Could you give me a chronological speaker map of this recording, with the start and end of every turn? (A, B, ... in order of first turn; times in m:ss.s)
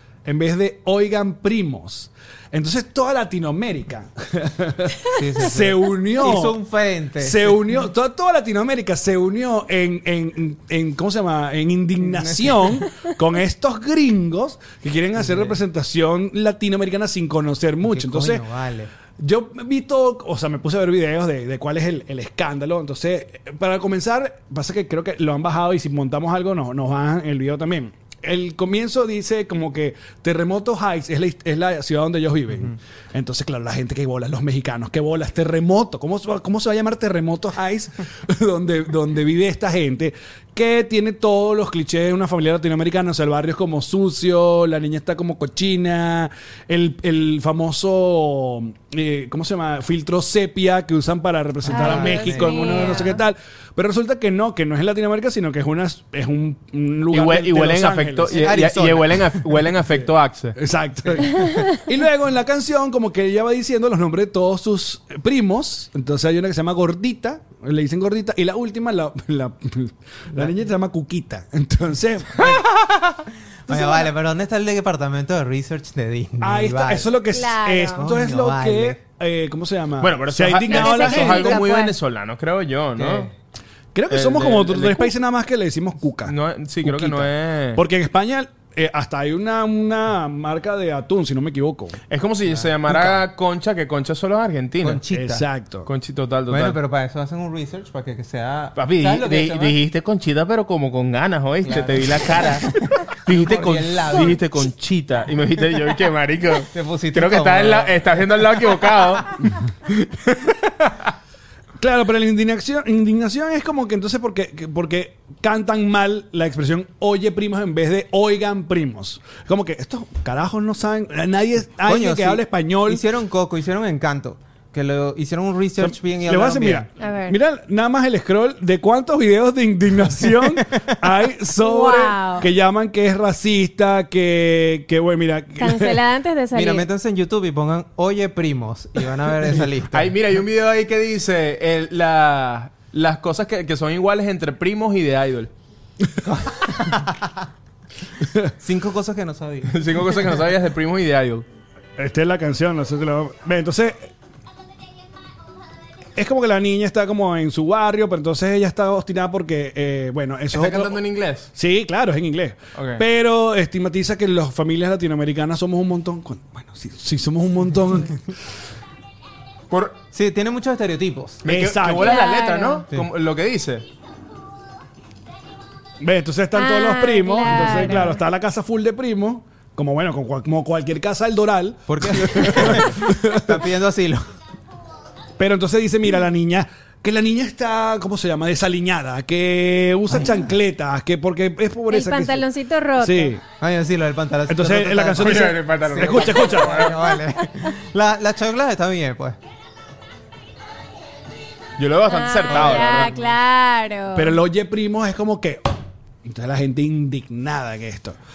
0:00.2-0:06.6 A
0:05.1-0:07.6 B
0:07.2-0:18.4 A
0:12.0-0:12.8 B
0:15.2-0:15.6 B
0:17.8-0:18.9 B
0:19.2-0:58.6 A
0:51.6-0:53.0 B
0:51.7-0:53.2 C
0:57.1-1:00.6 D
0:58.3-0:59.3 B
1:00.0-1:12.5 A
1:01.2-1:01.5 B
1:13.7-1:17.1 B
1:13.7-1:14.0 A
1:16.4-1:21.6 A
1:17.3-1:18.0 C
1:18.0-1:19.0 B
1:20.0-1:23.3 D
1:20.7-1:21.9 C
1:23.0-1:23.3 B
1:23.9-1:31.9 A
1:24.1-1:25.1 D
1:26.2-1:27.8 D
1:32.1-1:35.0 D
1:32.5-1:33.1 B
1:34.8-1:35.4 B
1:35.1-1:35.9 A
1:35.8-1:36.8 D
1:36.5-1:39.8 B
1:38.8-1:49.4 D
1:41.6-1:44.4 B
1:46.7-1:49.0 B
1:49.9-1:51.0 D
1:51.8-2:03.0 A
2:01.8-2:06.9 B
2:05.8-2:16.0 A
2:07.0-2:07.4 C
2:10.4-2:10.8 B
2:11.6-2:12.4 C
2:15.6-2:16.9 C
2:16.5-2:20.1 B
2:19.9-2:25.5 D
2:26.2-2:27.3 B
2:28.6-2:29.9 B
2:29.7-2:31.4 D
2:32.0-2:34.1 A
2:36.2-2:41.0 A
2:40.5-2:41.5 D
2:41.5-2:48.3 A
2:42.8-2:43.0 D
2:49.7-2:50.0 D
2:50.1-2:51.4 B
2:51.4-2:53.8 D
2:51.4-2:52.2 A
2:52.0-2:52.8 C
2:56.0-3:03.7 A
2:56.5-2:58.2 C
3:01.9-3:04.3 B
3:05.4-3:13.4 A
3:11.9-3:13.3 C
3:13.6-3:19.4 B
3:14.5-3:16.9 A
3:15.2-3:17.0 D
3:21.8-3:23.1 D
3:22.1-3:24.4 C
3:22.5-3:23.3 B
3:24.1-3:25.7 A
3:26.2-3:28.2 A